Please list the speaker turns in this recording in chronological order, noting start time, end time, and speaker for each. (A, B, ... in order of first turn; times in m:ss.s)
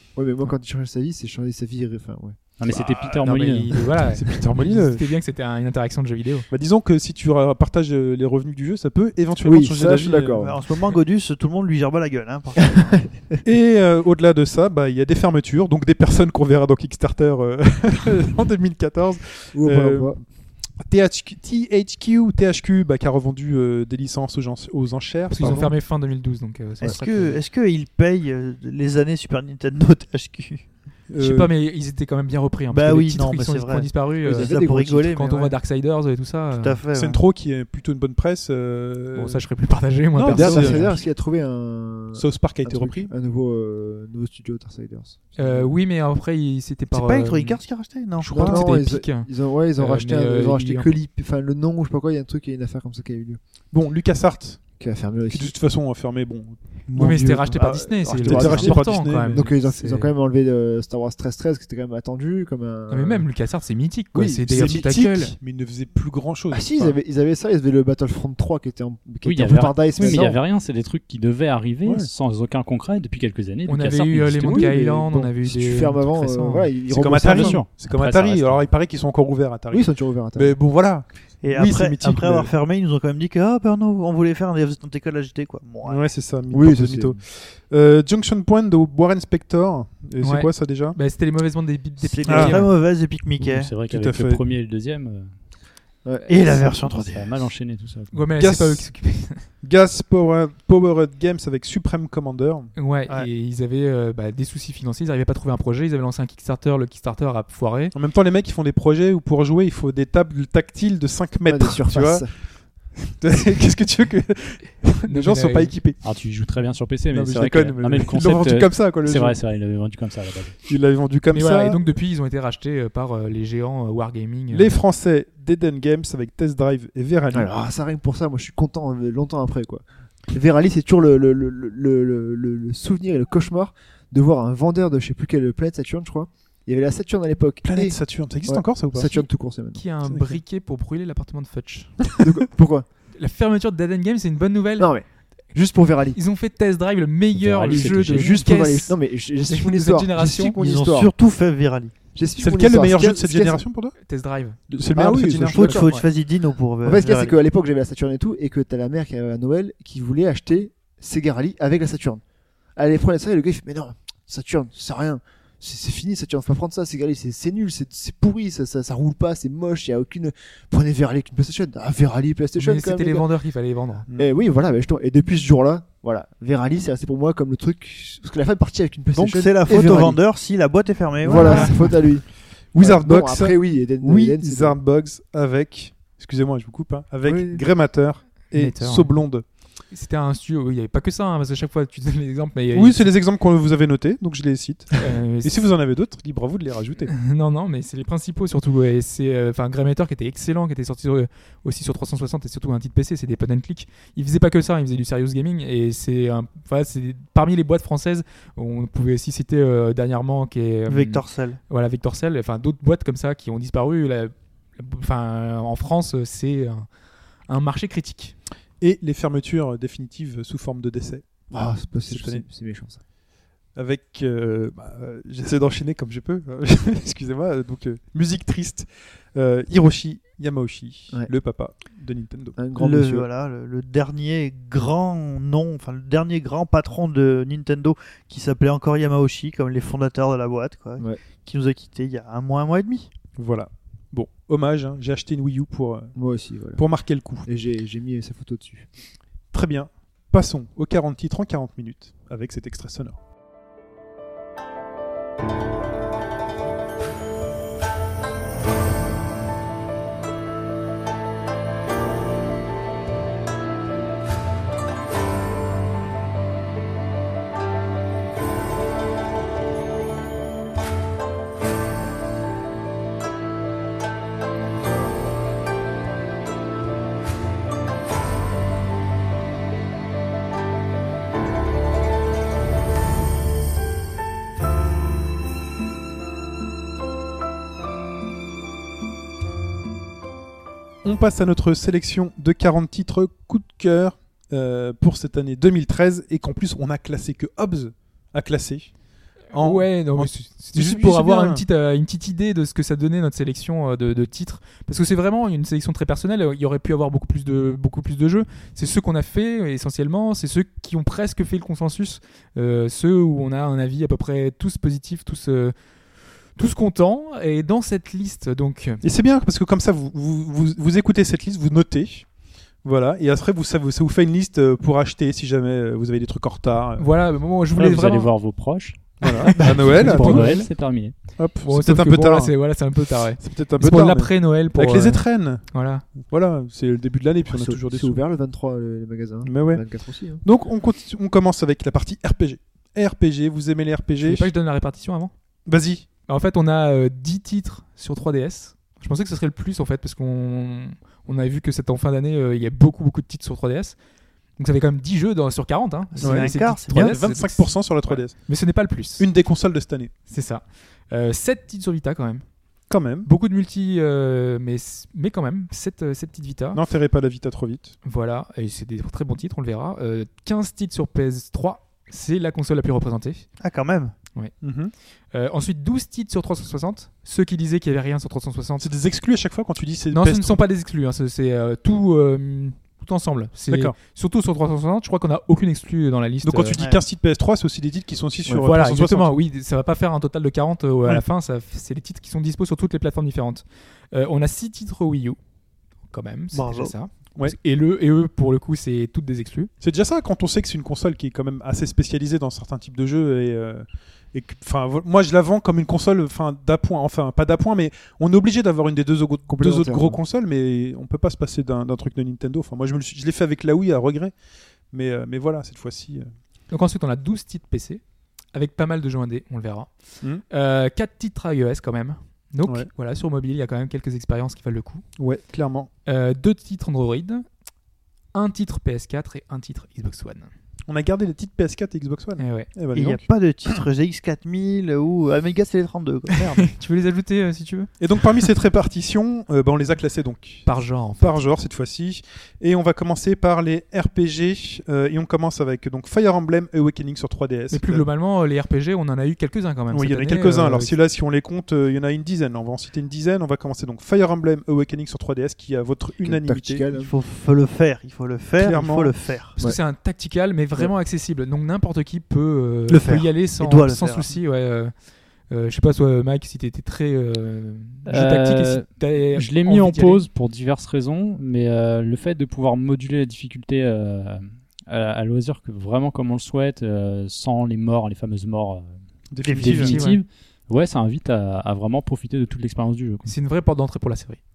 0:00.1-0:02.4 A
0:02.6-0:03.9 B
0:03.2-0:06.5 C
0:04.1-0:05.1 D
0:06.5-0:10.5 D
0:09.4-0:10.6 A
0:10.4-0:13.2 E
0:13.4-0:20.2 D
0:19.5-0:20.2 A
0:20.8-0:25.7 D
0:25.3-0:27.4 C
0:25.4-0:25.7 A
0:26.8-0:30.7 E
0:31.1-0:31.5 D
0:31.2-0:36.8 C
0:32.7-0:35.6 E
0:34.2-0:35.2 A
0:36.5-0:37.2 E
0:36.9-0:39.4 D
0:39.1-0:41.0 C
0:40.1-0:41.0 D
0:40.3-0:45.7 A
0:42.2-0:43.1 D
0:45.4-0:47.6 C
0:46.9-0:48.7 E
0:48.2-0:50.9 C
0:48.3-0:53.4 A
0:53.7-0:54.6 D
0:54.8-0:55.5 A
0:55.3-0:56.6 D
0:56.9-0:57.6 E
0:56.9-1:00.1 C
0:57.6-0:59.5 D
0:57.6-1:03.3 A
1:02.9-1:05.3 C
1:04.1-1:06.9 D
1:06.5-1:10.4 A
1:09.2-1:14.7 B
1:11.8-1:12.1 D
1:13.6-1:16.7 C
1:14.4-1:17.6 A
1:16.9-1:22.5 D
1:17.1-1:18.7 B
1:19.7-1:20.6 A
1:21.4-1:26.1 E
1:25.8-1:31.0 D
1:26.5-1:27.2 A
1:30.2-1:32.7 C
1:32.0-1:33.7 E
1:32.3-1:32.7 D
1:33.4-1:35.3 B
1:33.9-1:34.4 D
1:36.0-1:36.3 A
1:36.3-1:37.5 E
1:36.4-1:38.3 B
1:38.1-1:39.4 C
1:38.4-1:38.9 D
1:39.6-1:42.7 D
1:42.7-1:47.9 C
1:47.9-1:56.0 D
1:51.4-1:52.3 A
1:55.0-1:55.8 C
1:56.0-2:00.6 B
1:57.1-1:59.4 D
2:00.6-2:01.8 D
2:01.3-2:04.7 C
2:04.5-2:07.5 D
2:07.3-2:19.8 A
2:17.6-2:19.2 D
2:19.7-2:22.0 C
2:20.0-2:20.4 D
2:22.2-2:22.8 A
2:23.2-2:24.9 C
2:24.8-2:26.2 A
2:26.1-2:30.6 C
2:27.4-2:28.5 B
2:27.9-2:31.1 A
2:30.6-2:31.9 E
2:32.1-2:33.6 A
2:32.4-2:34.0 D
2:34.0-2:34.6 C
2:34.7-2:35.8 D
2:34.9-2:35.9 A
2:35.5-2:37.4 E
2:35.8-2:36.1 C
2:36.8-2:42.2 A
2:42.8-2:53.3 A
2:52.6-2:54.0 C
2:54.1-2:54.3 D
2:54.1-3:00.2 A
2:59.1-3:01.9 E
3:01.2-3:04.8 A
3:01.4-3:01.7 C
3:02.7-3:09.4 D
3:07.2-3:07.6 A
3:08.5-3:09.2 C
3:09.9-3:13.1 C
3:12.7-3:17.1 D
3:15.0-3:15.7 C
3:17.1-3:36.8 C
3:30.9-3:31.6 E
3:37.5-3:38.4 C
3:38.8-3:41.2 D
3:41.5-3:43.0 A
3:42.0-3:42.4 D
3:43.7-3:52.6 D
3:52.6-3:53.3 A
3:52.8-4:03.1 E
4:03.4-4:06.1 D
4:06.1-4:08.9 A
4:06.8-4:07.5 D
4:09.5-4:13.2 D
4:51.0-4:58.9 D
4:59.5-5:01.6 D
4:59.5-5:15.7 C
5:16.6-5:19.0 C
5:19.0-5:22.3 D
5:22.8-5:27.1 D
5:27.0-5:28.3 C
5:27.7-5:31.3 B
5:29.2-5:30.8 D
5:29.4-5:30.7 C
5:31.3-5:38.2 D
5:31.6-5:36.0 C
5:37.4-5:40.4 A
5:39.4-5:39.8 D
5:40.4-5:44.5 D
5:44.2-5:45.3 C
5:45.6-5:46.1 D
5:46.3-5:54.0 C
5:54.6-5:59.2 C
5:56.2-5:57.2 E
5:56.2-6:00.1 D
6:00.3-6:02.4 C
6:02.9-6:03.3 D
6:03.2-6:06.8 C
6:06.7-6:08.0 D
6:08.0-6:13.4 C
6:13.6-6:14.1 E
6:14.6-6:14.9 D
6:15.3-6:18.9 C
6:18.8-6:20.6 D
6:20.1-6:26.8 C
6:23.7-6:23.9 D
6:26.4-6:29.3 D
6:26.7-6:27.0 E
6:28.5-6:35.4 C
6:36.1-6:39.7 C
6:36.5-6:36.9 E
6:39.8-6:54.3 D
6:49.5-6:50.2 A
6:54.9-6:56.3 D
6:56.7-6:58.0 C
6:58.5-6:59.9 C
7:00.4-7:05.0 C
7:05.2-7:05.9 D
7:06.0-7:07.4 C
7:08.3-7:10.5 C
7:10.9-7:13.2 D
7:12.4-7:12.7 C
7:12.9-7:16.5 E
7:16.6-7:17.9 C
7:18.0-7:28.0 D
7:20.6-7:21.4 C
7:27.7-7:31.0 C
7:29.9-7:36.8 D
7:36.2-7:37.1 A
7:36.9-7:39.5 E
7:38.6-7:39.1 D
7:39.6-7:44.9 C
7:42.9-7:44.4 E
7:45.5-7:50.2 C
7:48.1-7:58.9 B
7:59.3-8:00.0 D
7:59.4-7:59.9 E
7:59.6-8:03.3 B
7:59.7-8:00.2 C
8:03.2-8:04.4 C